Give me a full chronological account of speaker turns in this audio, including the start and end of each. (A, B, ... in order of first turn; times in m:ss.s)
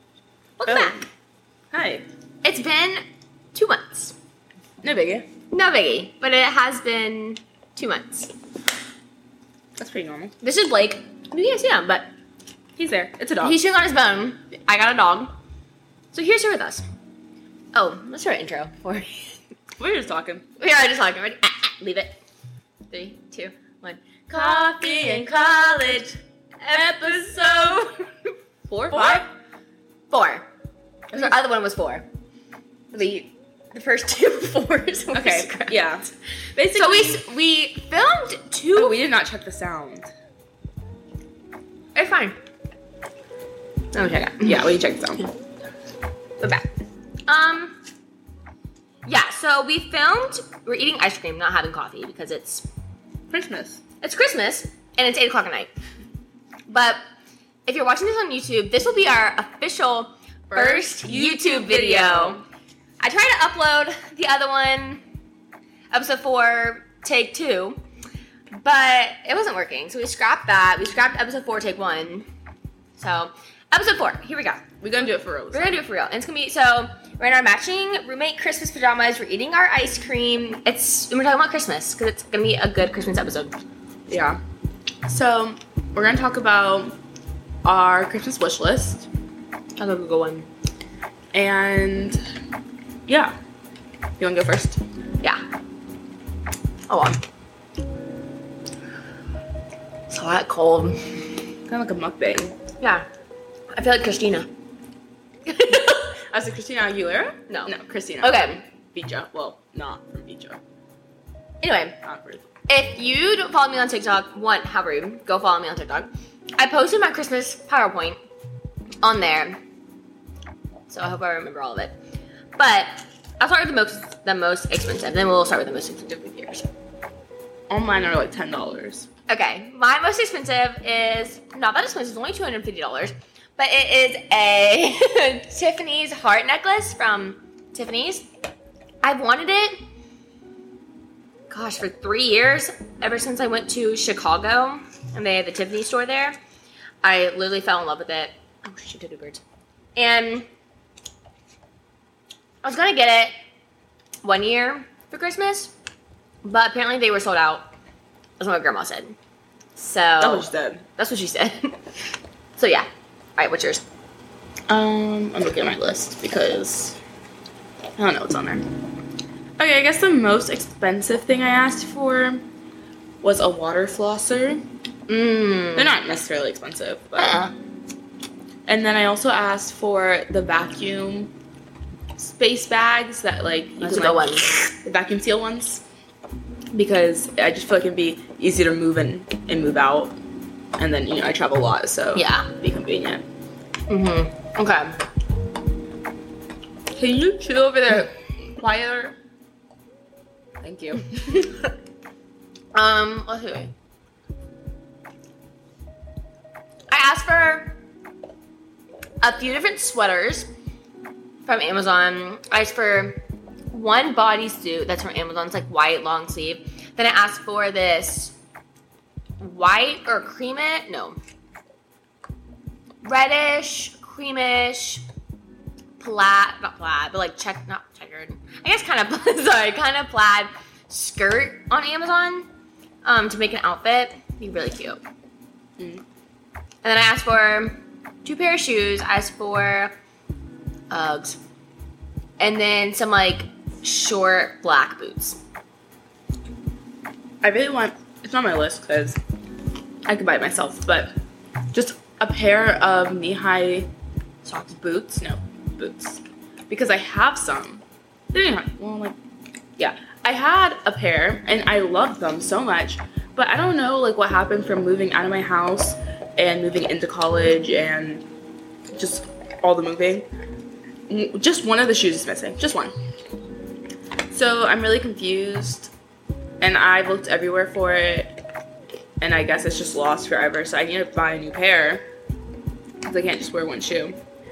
0:00.6-0:01.0 A
0:00.7-0:01.0 B
0:01.7-0:02.0 B
0:02.4-0:03.0 A
0:03.5-0:04.1 A
0:04.8-0:05.2 B
0:05.5-0:08.3 A
0:09.8-0:10.3 B
0:10.4-0:12.1 A
0:12.8-0:13.6 B
0:13.4-0:15.3 A
0:16.1-0:16.8 A
0:17.7-0:19.4 A
0:19.8-0:20.4 B
0:20.6-0:22.1 A
0:22.9-0:26.0 A
0:24.3-0:26.2 B
0:26.6-0:28.0 A
0:26.7-0:27.9 B
0:28.7-0:29.2 B
0:28.9-0:29.2 A
0:30.1-0:30.4 A
0:31.1-0:32.0 A
0:32.9-0:35.8 A
0:35.1-0:37.2 B
0:36.7-0:39.0 A
0:38.7-0:40.1 B
0:41.9-0:42.4 A
0:43.9-0:44.6 A
0:44.4-0:45.3 B
0:46.4-0:46.7 A
0:47.3-0:47.8 A
0:49.0-0:52.6 A
0:53.3-0:53.8 B
0:54.0-0:55.7 A
0:56.7-0:57.0 A
0:57.6-1:02.4 A
1:00.5-1:02.4 B
1:03.0-1:05.0 A
1:05.9-1:07.8 A
1:08.5-1:12.2 A
1:13.0-1:14.6 A
1:14.8-1:15.8 B
1:15.5-1:23.5 A
1:24.1-1:24.4 B
1:25.0-1:27.0 B
1:27.6-1:29.1 B
1:29.8-1:30.5 A
1:31.3-1:32.2 B
1:33.1-1:33.3 B
1:34.2-1:34.8 B
1:36.9-1:37.2 A
1:40.1-1:41.2 A
1:41.7-1:42.6 B
1:42.8-1:43.0 A
1:43.7-1:44.5 A
1:45.5-1:46.2 A
1:46.3-1:50.6 B
1:47.5-1:48.6 A
1:51.6-1:51.9 A
1:52.0-1:52.5 B
1:52.7-1:58.2 A
1:59.0-1:59.6 A
2:00.9-2:01.9 A
2:02.6-2:06.7 A
2:07.7-2:09.1 B
2:09.3-2:18.2 A
2:19.0-2:19.8 A
2:21.5-2:26.4 A
2:27.0-2:29.4 A
2:30.0-2:30.5 A
2:32.6-2:33.3 A
2:34.2-2:35.7 A
2:36.4-2:37.7 A
2:38.4-2:39.2 A
2:39.8-2:41.8 A
2:40.2-2:40.8 B
2:42.6-2:43.8 A
2:44.7-2:47.0 B
2:48.0-2:48.7 B
2:49.6-2:52.4 B
2:53.2-2:54.6 B
2:55.1-2:55.9 A
2:55.8-2:57.4 B
2:57.2-2:57.5 A
2:58.7-3:01.3 B
3:02.2-3:05.8 B
3:03.8-3:04.7 A
3:06.7-3:10.2 B
3:10.8-3:13.2 B
3:12.1-3:12.5 A
3:13.9-3:15.0 A
3:16.9-3:19.1 B
3:20.6-3:21.5 B
3:22.7-3:23.7 A
3:26.9-3:27.7 A
3:29.2-3:30.5 A
3:31.4-3:33.2 A
3:33.7-3:38.3 A
3:39.4-3:41.2 A
3:43.0-3:45.0 A
3:46.0-3:52.5 A
3:53.0-3:55.0 A
3:55.8-3:56.0 B
3:56.8-3:59.9 A
4:00.9-4:01.4 A
4:02.4-4:05.4 A
4:07.4-4:09.2 B
4:10.1-4:11.1 B
4:11.7-4:13.9 B
4:14.5-4:14.7 A
4:14.7-4:19.2 B
4:19.8-4:28.2 B
4:28.9-4:30.3 B
4:31.1-4:32.9 B
4:34.3-4:35.9 B
4:36.6-4:38.3 B
4:39.2-4:42.0 B
4:43.0-4:44.2 B